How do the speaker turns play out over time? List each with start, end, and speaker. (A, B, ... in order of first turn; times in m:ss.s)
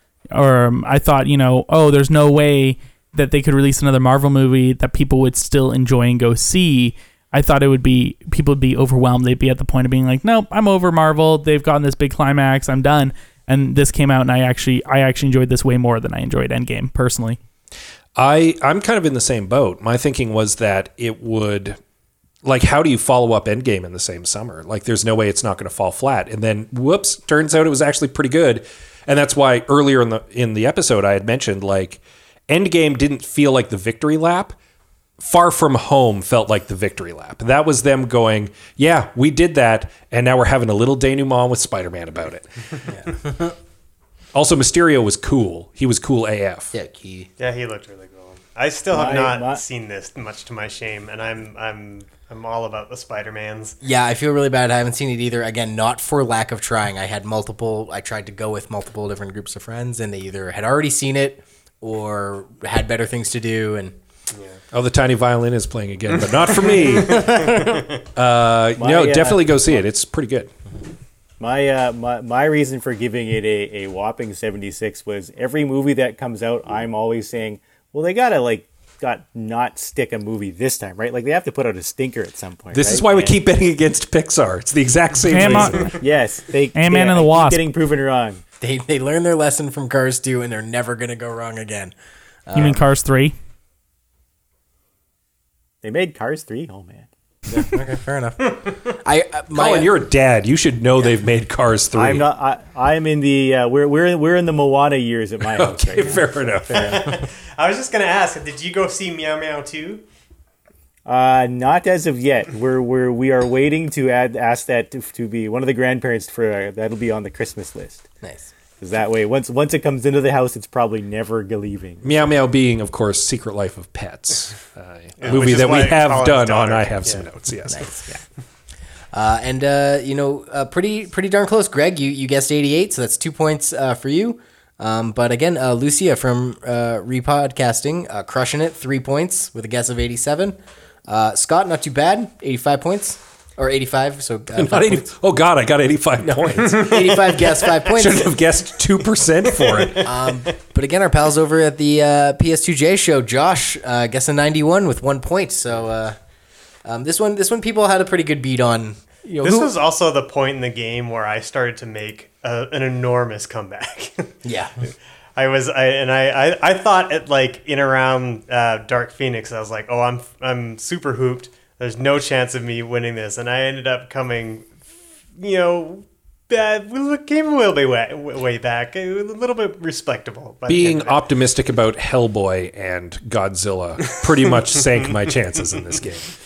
0:00.3-0:17.4 A
0:18.2-0:21.8 B
0:22.4-0:34.6 B
0:35.2-0:42.8 B
0:42.9-0:43.6 C
0:44.3-0:46.7 B
0:46.7-0:47.3 C
0:47.4-0:53.8 D
0:48.9-0:49.6 E
0:53.8-1:03.9 C
1:04.3-1:04.6 D
1:04.7-1:07.6 B
1:06.8-1:07.9 C
1:07.0-1:08.0 D
1:08.2-1:10.5 B
1:08.8-1:09.8 E
1:11.4-1:23.3 E
1:22.7-1:26.0 B
1:25.3-1:25.8 A
1:26.0-1:28.4 E
1:26.7-1:27.6 A
1:28.6-1:31.9 C
1:32.5-1:32.8 C
1:32.5-1:33.3 A
1:35.8-1:37.7 E
1:37.5-1:39.9 C
1:39.5-1:42.3 B
1:41.9-1:46.4 E
1:45.5-1:47.0 B
1:46.7-1:47.2 C
1:46.7-1:50.0 D
1:51.0-1:58.0 E
1:58.2-1:58.5 C
1:58.8-2:02.0 E
2:02.0-2:08.0 B
2:05.2-2:07.2 D
2:07.7-2:08.1 C
2:09.1-2:25.1 C
2:24.5-2:30.0 B
2:26.2-2:28.3 C
2:29.6-2:30.1 D
2:30.0-2:36.2 C
2:36.8-2:39.7 C
2:39.4-2:44.4 D
2:44.4-2:44.9 C
2:45.4-2:54.7 D
2:55.4-3:01.2 D
3:00.7-3:06.3 B
3:04.1-3:04.7 D